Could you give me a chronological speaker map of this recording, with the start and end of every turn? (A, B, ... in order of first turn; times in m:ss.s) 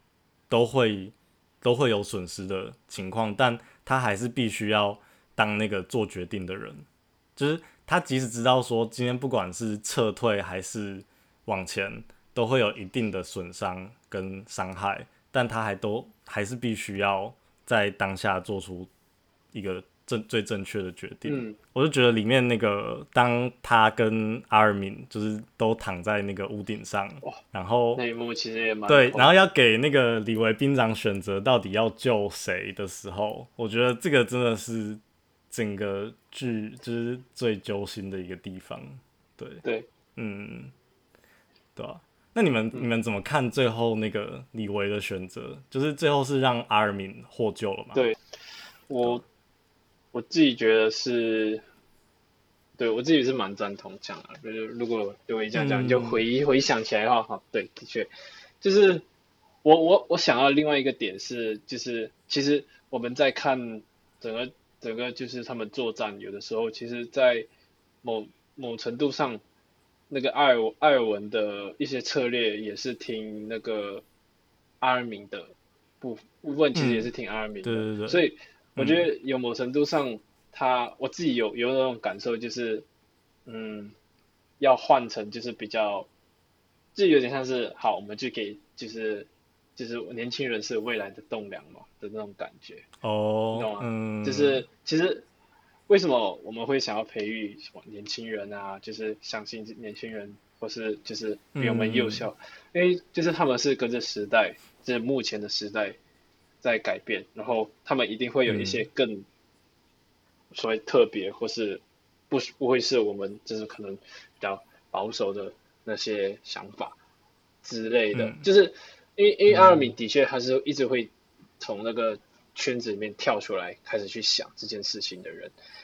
0:00.5-0:06.8 A
0:07.4-0:18.9 A
0:19.5-0:28.0 A
0:21.2-0:21.6 B
0:28.0-0:29.3 B
0:28.9-0:39.6 A
0:40.2-0:40.7 A
0:41.8-0:48.0 A
0:48.9-0:49.2 B
0:50.1-0:51.6 B
0:52.8-0:58.1 B
0:55.5-0:56.2 A
0:58.6-0:59.0 B
0:59.6-1:07.5 B
1:08.0-1:09.4 B
1:10.1-1:14.0 B
1:14.8-1:22.8 B
1:16.7-1:17.1 A
1:17.6-1:19.1 A
1:23.4-1:23.9 B
1:24.6-1:26.1 B
1:26.9-1:32.9 B
1:33.0-1:34.6 A
1:33.5-1:35.2 B
1:35.9-1:46.0 B
1:41.6-1:42.3 A
1:46.6-1:49.2 B
1:48.4-1:48.8 A
1:50.5-1:57.0 B
1:57.6-2:05.5 B
1:58.1-1:58.4 A
1:59.5-1:59.9 A